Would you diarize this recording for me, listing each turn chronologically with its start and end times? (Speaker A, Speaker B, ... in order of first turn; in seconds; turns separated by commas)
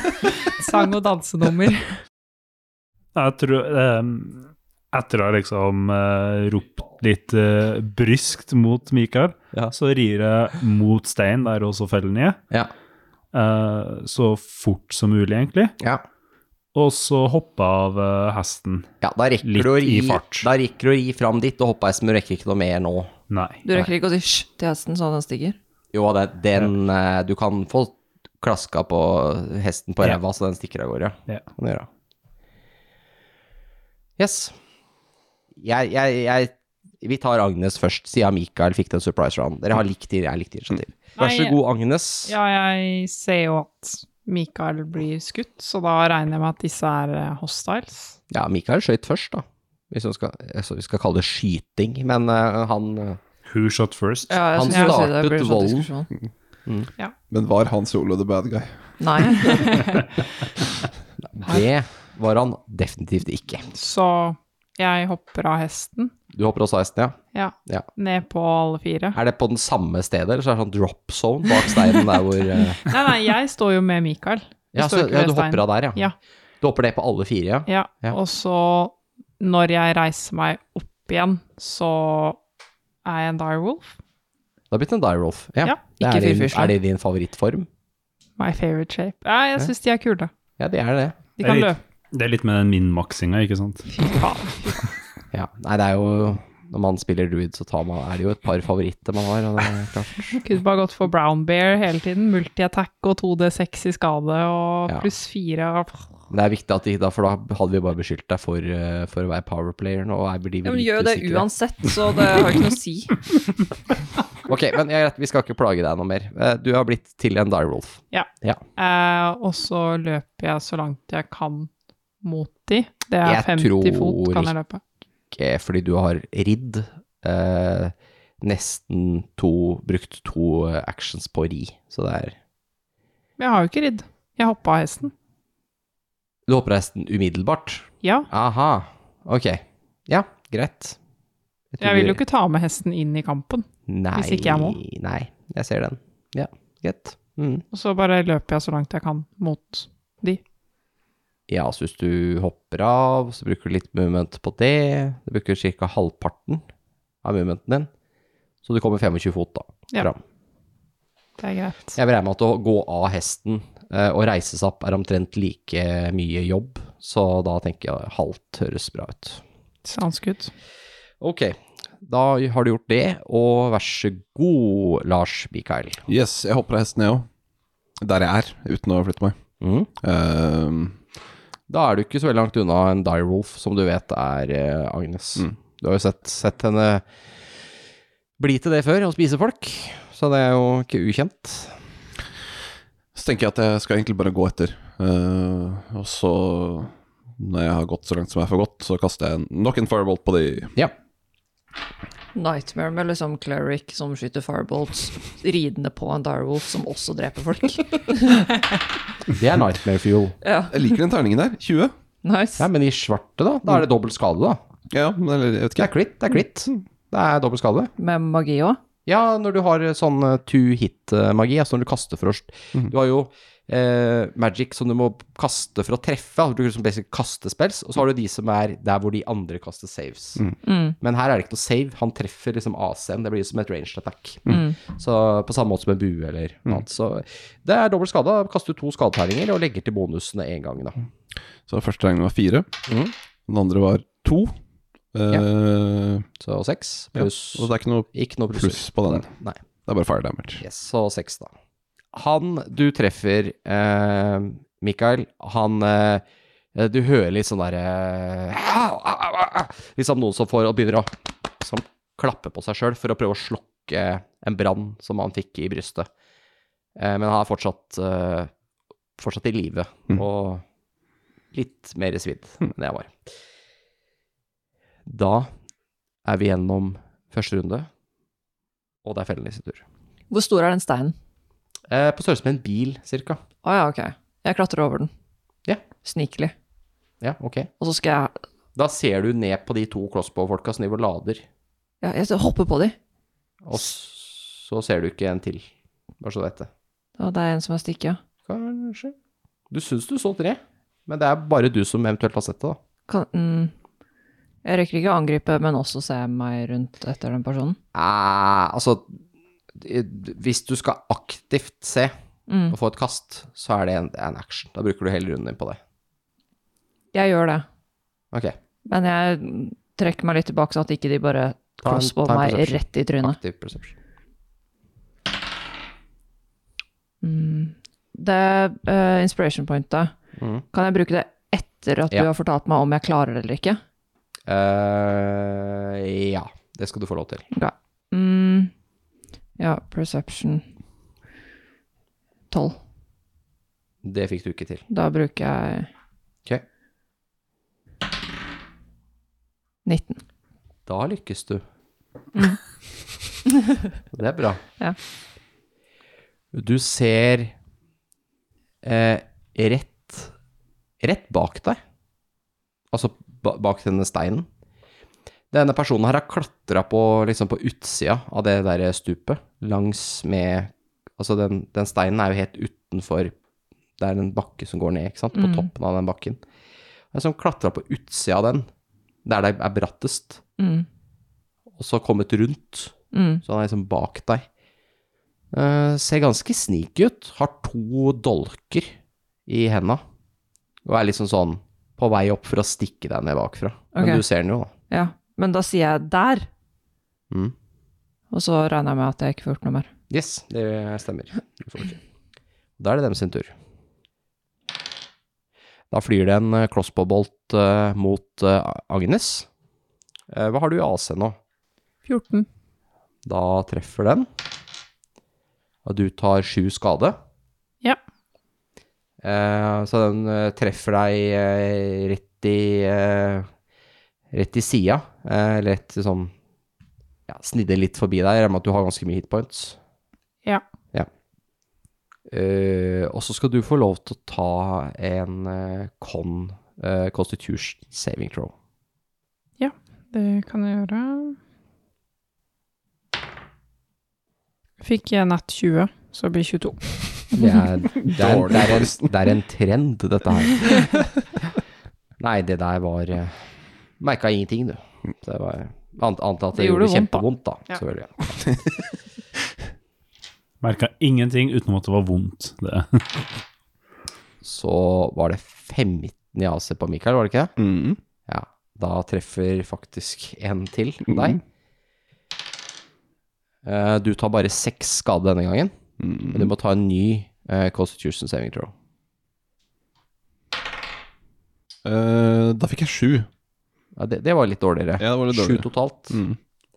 Speaker A: 0.4-2.0, Speaker B: 3.1-12.4, Speaker B: 13.3-15.7, Speaker B: 16.7-18.9, Speaker C: 19.0-23.1, Speaker B: 19.4-20.5, Speaker B: 23.3-23.6, Speaker D: 23.6-25.6, Speaker C: 25.9-31.9, Speaker C: 34.2-34.5, Speaker C: 35.6-42.3, Speaker A: 41.2-41.6, Speaker A: 42.2-48.2, Speaker C: 48.3-53.2, Speaker B: 53.4-54.4, Speaker D: 54.3-56.1, Speaker C: 54.5-55.9, Speaker E: 57.3-58.7, Speaker D: 59.0-59.9, Speaker A: 59.4-59.7, Speaker C: 61.2-63.7, Speaker A: 63.7-66.1, Speaker C: 66.3-67.9, Speaker A: 67.3-69.2, Speaker C: 69.1-72.8, Speaker A: 72.8-76.1, Speaker C: 74.7-76.0, Speaker C: 76.6-78.2, Speaker A: 77.7-82.4, Speaker A: 83.0-83.9, Speaker C: 84.7-87.7, Speaker D: 86.0-86.7, Speaker A: 88.4-90.3, Speaker C: 90.6-91.2, Speaker A: 91.4-91.8, Speaker B: 91.4-94.0, Speaker A: 93.9-94.9, Speaker C: 95.3-100.4, Speaker A: 100.4-106.1, Speaker C: 106.3-111.5, Speaker D: 110.6-113.3, Speaker C: 114.5-118.6, Speaker A: 118.1-124.8, Speaker C: 123.2-124.5, Speaker C: 125.3-132.4, Speaker A: 133.4-135.1, Speaker C: 136.5-141.0, Speaker A: 138.0-138.3, Speaker C: 141.7-142.2, Speaker A: 141.8-144.8, Speaker C: 143.9-147.6, Speaker A: 147.7-150.4, Speaker C: 151.5-156.6, Speaker C: 157.2-157.9, Speaker C: 158.6-160.2, Speaker A: 161.4-162.0, Speaker C: 161.9-169.4, Speaker A: 169.8-170.5, Speaker C: 171.2-176.0, Speaker E: 176.1-177.3, Speaker E: 178.0-179.3, Speaker C: 179.6-179.9, Speaker E: 180.0-181.0, Speaker C: 181.7-187.0, Speaker C: 188.4-191.8, Speaker E: 193.1-200.7, Speaker D: 202.3-208.5, Speaker C: 209.3-210.4, Speaker D: 210.4-211.0, Speaker E: 210.7-211.9, Speaker D: 212.2-212.7, Speaker C: 212.6-214.6, Speaker E: 214.9-215.9, Speaker C: 215.8-217.9, Speaker D: 218.0-218.8, Speaker C: 219.1-230.4, Speaker D: 230.6-231.0, Speaker C: 231.0-241.0, Speaker D: 234.5-234.8, Speaker E: 241.7-242.7, Speaker C: 242.9-243.1, Speaker E: 243.5-244.6, Speaker E: 245.1-246.2, Speaker C: 246.4-249.6, Speaker E: 247.1-249.3, Speaker E: 249.9-250.6, Speaker C: 250.6-251.5, Speaker C: 252.1-256.2, Speaker C: 256.7-266.1, Speaker C: 266.9-268.5, Speaker C: 269.2-270.6, Speaker C: 271.5-273.1, Speaker C: 275.1-275.5, Speaker C: 276.2-277.9, Speaker C: 279.0-279.8, Speaker D: 280.3-281.1, Speaker C: 281.9-283.4, Speaker D: 283.6-285.1, Speaker D: 286.0-286.5, Speaker C: 287.2-287.7, Speaker D: 287.8-288.4, Speaker C: 288.8-291.4, Speaker D: 292.0-293.0, Speaker C: 293.6-295.7, Speaker C: 296.2-296.7, Speaker D: 297.2-298.2, Speaker C: 298.5-299.1, Speaker C: 299.7-302.8, Speaker D: 303.1-303.7, Speaker D: 304.6-307.8, Speaker C: 307.9-309.1, Speaker C: 309.8-312.1, Speaker D: 312.5-312.7, Speaker C: 312.7-315.8, Speaker D: 317.1-317.6, Speaker D: 318.9-323.4, Speaker C: 321.8-323.9, Speaker D: 327.2-330.1, Speaker C: 330.4-330.6, Speaker D: 330.7-333.8, Speaker C: 334.5-337.4, Speaker D: 337.5-338.7, Speaker D: 339.6-340.6, Speaker D: 342.5-342.8, Speaker C: 344.0-344.9, Speaker D: 344.9-345.9, Speaker D: 349.9-350.2, Speaker C: 350.9-351.6, Speaker D: 352.4-352.6, Speaker C: 354.1-354.6, Speaker C: 356.5-357.5, Speaker C: 358.8-360.3, Speaker C: 361.0-361.8, Speaker C: 362.9-364.5, Speaker C: 365.5-373.3, Speaker C: 374.0-376.4, Speaker D: 375.4-375.7, Speaker C: 377.1-378.7, Speaker C: 379.2-380.4, Speaker D: 380.6-380.9, Speaker C: 381.8-384.4, Speaker D: 383.1-383.4, Speaker C: 385.5-388.9, Speaker C: 389.5-390.0, Speaker C: 390.9-394.7, Speaker D: 393.9-394.2, Speaker D: 394.9-396.5, Speaker D: 398.3-399.9, Speaker C: 400.1-402.0, Speaker C: 402.8-403.5, Speaker C: 405.9-409.5, Speaker C: 410.3-411.4, Speaker A: 412.0-412.5, Speaker C: 413.2-414.3, Speaker C: 415.9-417.2, Speaker C: 419.2-423.5, Speaker C: 424.3-426.3, Speaker C: 427.3-429.8, Speaker C: 432.3-438.5, Speaker A: 439.6-441.4, Speaker A: 444.8-447.2, Speaker C: 447.4-450.9, Speaker E: 448.0-449.1, Speaker C: 452.2-453.5, Speaker C: 454.0-458.4, Speaker D: 456.6-457.2, Speaker B: 460.6-463.0, Speaker C: 464.4-467.5, Speaker E: 467.6-468.0, Speaker C: 468.3-471.4, Speaker C: 473.6-475.7, Speaker E: 476.0-476.5, Speaker C: 476.3-478.7, Speaker E: 481.9-483.3, Speaker C: 484.0-486.2, Speaker E: 485.0-486.4